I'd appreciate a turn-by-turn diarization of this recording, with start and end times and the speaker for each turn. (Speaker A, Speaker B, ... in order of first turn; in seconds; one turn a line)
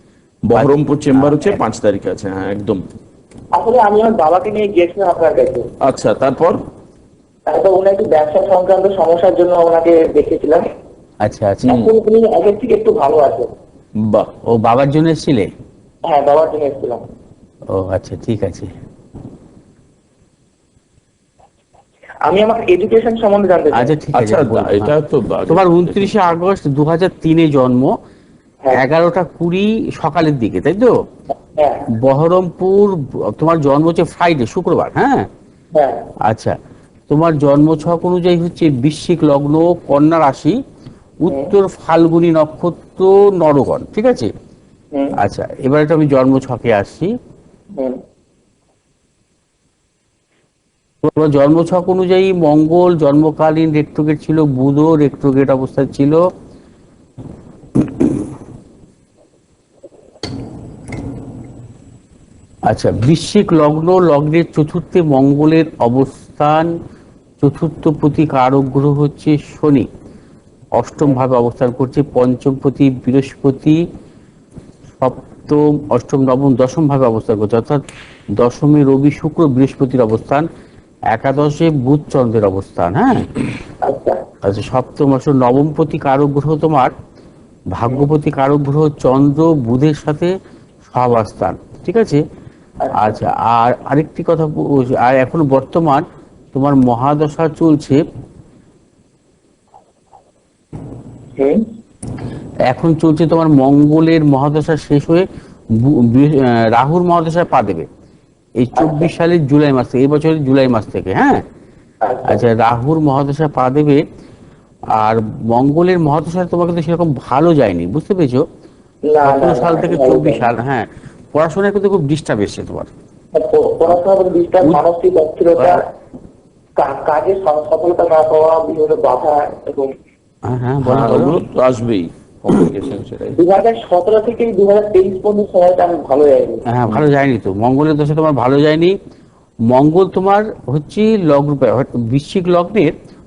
Speaker A: 0.5-2.8
Speaker B: 3.5-5.7
Speaker A: 5.8-6.6
Speaker B: 7.5-10.7
Speaker C: 11.2-11.7
Speaker A: 11.6-11.9
Speaker B: 11.7-13.5
Speaker A: 14.0-14.3
Speaker C: 14.4-15.5
Speaker B: 16.1-17.0
Speaker C: 17.7-18.7
Speaker B: 22.2-23.9
Speaker C: 23.7-24.9
Speaker A: 24.1-26.1
Speaker C: 25.5-27.9
Speaker C: 28.7-30.9
Speaker B: 31.6-31.9
Speaker C: 31.9-35.3
Speaker B: 35.7-36.1
Speaker C: 36.2-36.5
Speaker C: 37.1-40.6
Speaker C: 41.2-44.3
Speaker B: 41.3-41.5
Speaker C: 45.2-47.1
Speaker B: 47.8-48.0
Speaker C: 51.0-56.2
Speaker C: 57.8-58.2
Speaker C: 62.7-66.7
Speaker C: 67.4-69.9
Speaker C: 70.8-73.8
Speaker C: 75.0-77.8
Speaker C: 78.4-80.5
Speaker C: 81.1-83.3
Speaker B: 83.8-84.2
Speaker C: 84.4-86.9
Speaker C: 87.7-90.3
Speaker C: 90.9-92.2
Speaker B: 92.8-93.2
Speaker C: 92.9-98.0
Speaker B: 101.3-101.6
Speaker C: 102.7-107.9
Speaker C: 108.6-111.4
Speaker B: 108.8-109.1
Speaker B: 112.0-112.4
Speaker C: 112.2-114.0
Speaker C: 114.9-118.4
Speaker B: 119.1-120.5
Speaker C: 119.2-122.9
Speaker B: 123.3-125.8
Speaker B: 126.8-129.9
Speaker C: 130.5-131.4
Speaker A: 130.8-133.4
Speaker B: 133.3-136.6
Speaker C: 136.7-139.0
Speaker C: 139.7-142.9